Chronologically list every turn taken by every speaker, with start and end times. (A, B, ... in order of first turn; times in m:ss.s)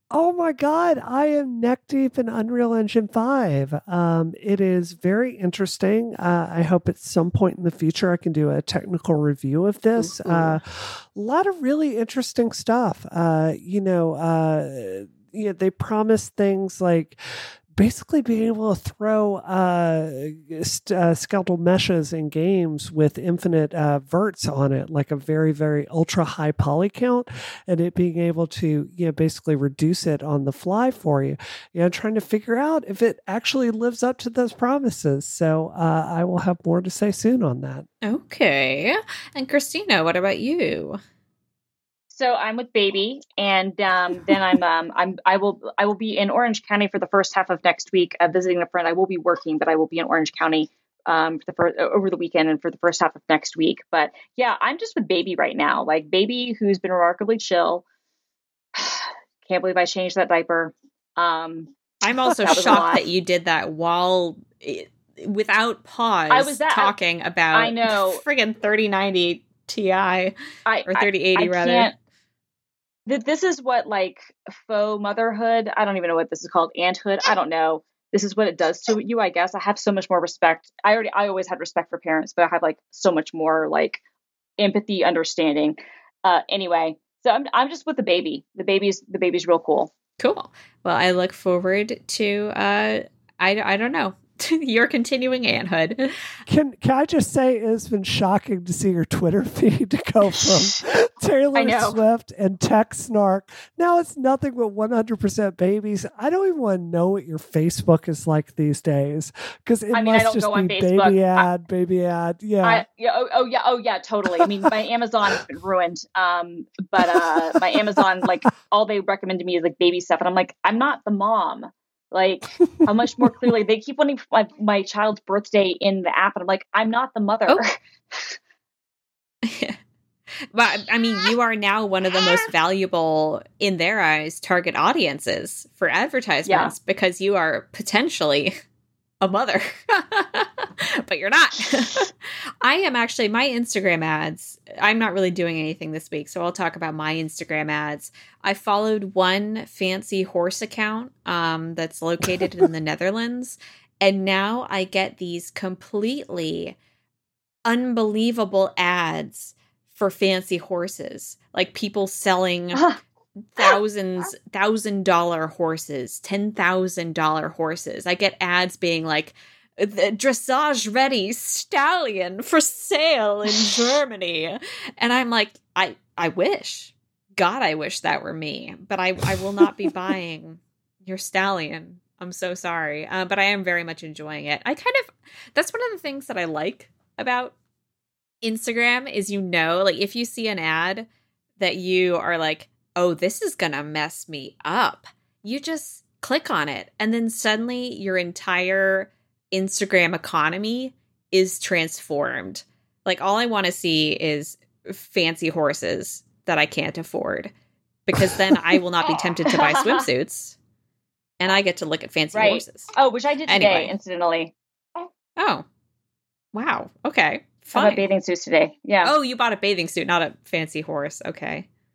0:00.1-0:17.2 A
0:17.7-0:37.8 A
0:38.0-0:41.0 B
0:42.1-0:57.8 C
0:58.7-1:01.7 C
1:02.0-1:10.3 B
1:02.3-1:03.0 C
1:06.3-1:06.9 C
1:07.5-1:08.2 C
1:10.6-1:11.9 C
1:10.9-1:11.9 B
1:13.0-1:24.0 C
1:24.6-1:29.9 C
1:30.2-1:36.1 B
1:36.5-1:52.8 A
1:41.6-1:42.0 C
1:49.9-1:51.4 C
1:52.6-2:08.4 C
1:54.4-1:54.7 A
2:09.4-2:09.8 B
2:10.5-2:18.5 B
2:16.4-2:16.7 C
2:19.2-2:36.8 B
2:37.6-2:42.9 B
2:43.5-3:07.6 B
3:08.4-3:11.1 B
3:11.6-3:27.5 B
3:28.1-3:30.6 B
3:29.4-3:30.1 C
3:31.4-3:32.9 B
3:32.3-3:34.5 C
3:33.5-3:33.9 B
3:35.4-3:35.6 B
3:36.5-3:38.0 B
3:37.7-3:39.1 C
3:39.0-3:41.7 B